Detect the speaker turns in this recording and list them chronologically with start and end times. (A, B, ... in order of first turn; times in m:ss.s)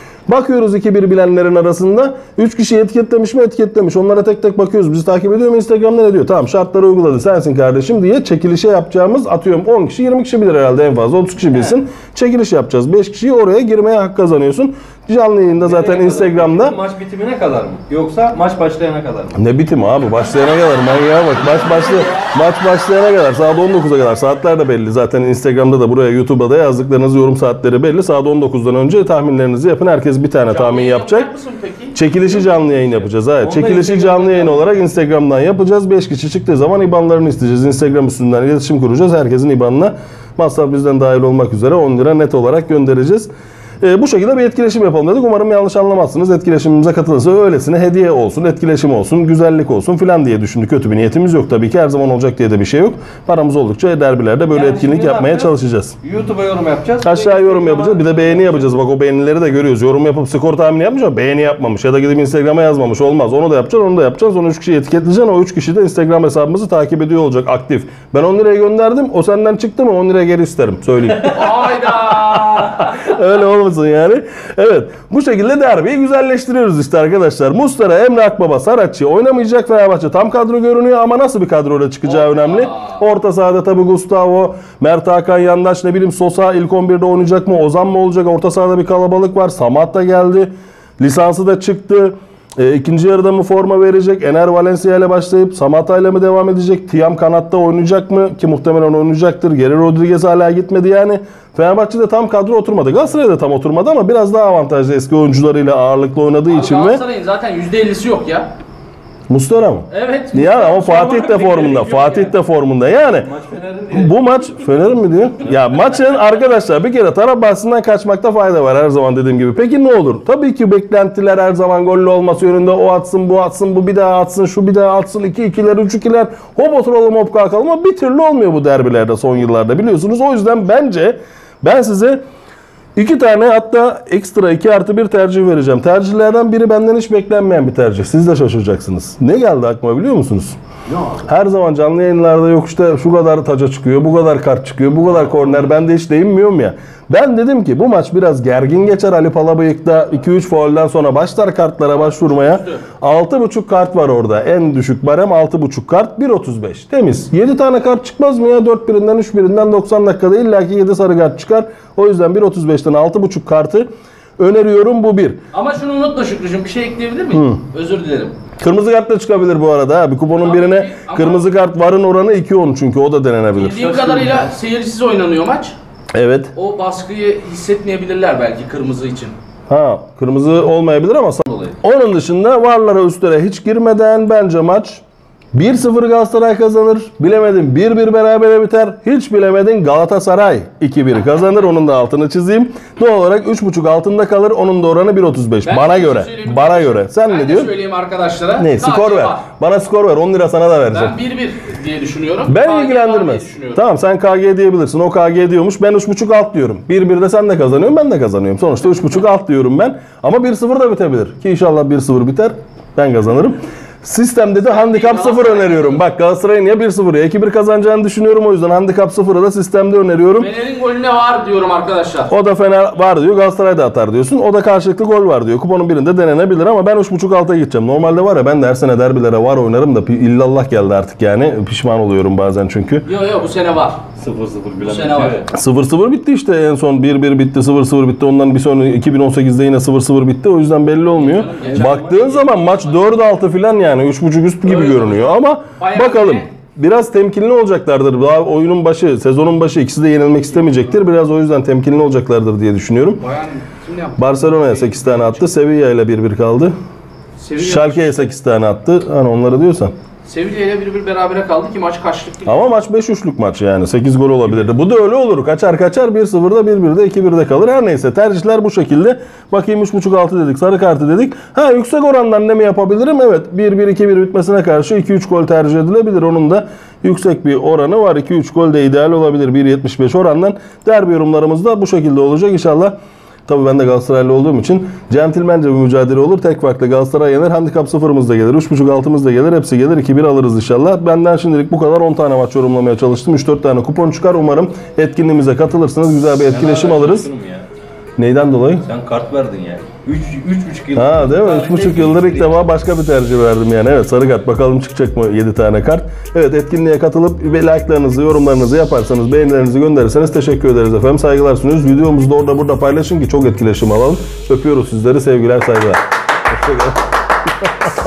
0:00.3-0:16.8 A
0:15.6-0:19.4 B
0:19.4-0:31.3 A
0:20.3-0:22.3 C
0:30.5-0:32.0 C
0:31.9-0:43.3 A
0:33.0-0:34.8 B
0:43.8-0:56.0 A
0:54.5-0:58.7 B
0:57.0-1:47.0 A
1:11.2-1:12.9 C
1:22.1-1:23.0 C
1:46.5-1:48.5 C
1:49.3-1:53.3 A
1:49.9-1:52.3 C
1:53.2-1:54.2 B
1:53.9-2:12.2 A
2:13.0-2:20.6 A
2:20.9-2:21.2 B
2:21.3-2:45.4 A
2:31.9-2:32.8 C
2:45.5-2:48.4 C
2:47.3-2:47.6 A
2:48.6-2:54.4 A
2:50.4-2:51.5 C
2:53.6-2:55.8 C
2:56.1-2:56.5 A
2:56.6-2:59.4 C
2:59.7-3:05.0 A
3:05.5-3:17.7 A
3:15.7-3:19.4 C
3:18.6-3:21.2 A
3:20.9-3:23.8 C
3:22.5-3:40.5 A
3:34.7-3:36.0 C
3:40.4-3:42.3 C
3:42.3-3:53.1 A
3:53.1-3:54.0 C
3:54.2-3:55.5 B
3:54.8-3:55.4 C
3:55.5-4:13.2 A
4:01.2-4:02.9 C
4:01.6-4:02.4 B
4:04.7-4:06.5 C
4:13.2-4:15.4 C
4:14.2-4:16.8 A
4:17.4-4:18.3 C
4:17.6-4:20.0 A
4:20.2-4:22.7 C
4:22.5-4:43.0 A
4:43.5-4:57.3 A
4:56.5-4:57.7 B
4:58.2-4:58.8 A
4:58.8-5:02.6 B
5:01.0-5:17.0 A